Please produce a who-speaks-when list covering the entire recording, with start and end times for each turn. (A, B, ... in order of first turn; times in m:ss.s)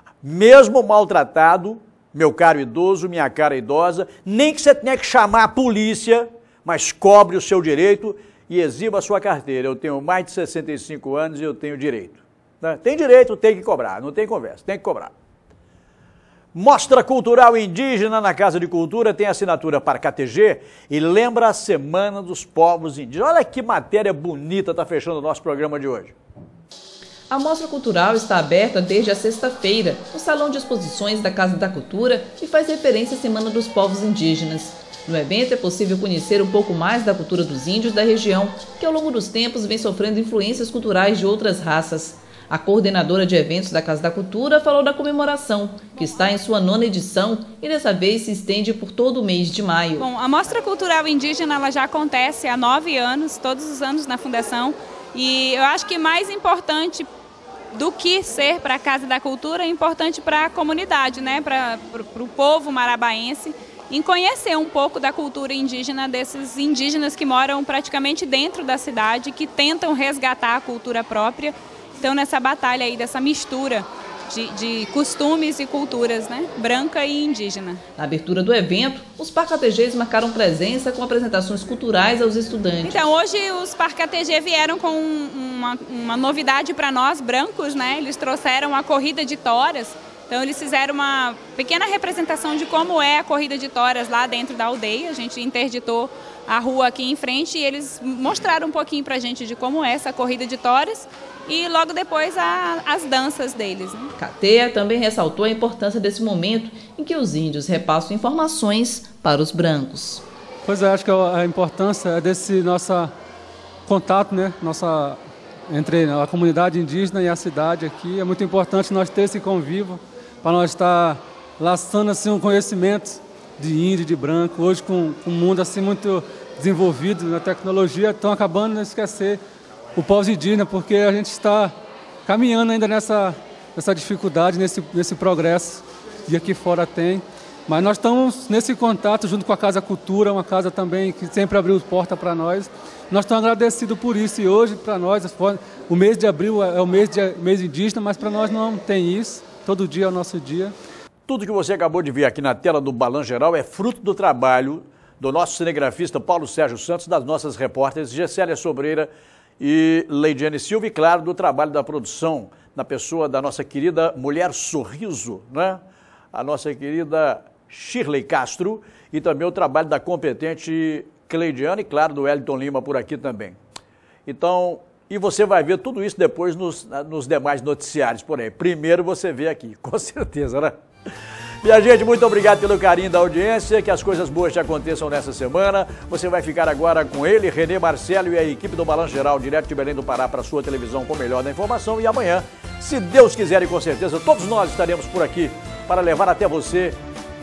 0:00.2-0:15.1 A
0:16.5-0:26.1 A
0:27.3-0:50.0 B
0:50.0-0:57.1 C
0:57.7-1:17.8 C
1:18.0-1:23.0 B
1:22.8-1:44.1 C
1:44.2-1:50.2 B
1:50.6-1:53.1 D
1:53.8-2:09.4 D
2:10.0-2:11.7 D
2:12.3-2:30.7 D
2:31.3-2:39.1 A
2:39.6-2:45.8 A
2:46.3-2:53.6 A
2:54.2-3:00.8 A
3:01.6-3:17.0 A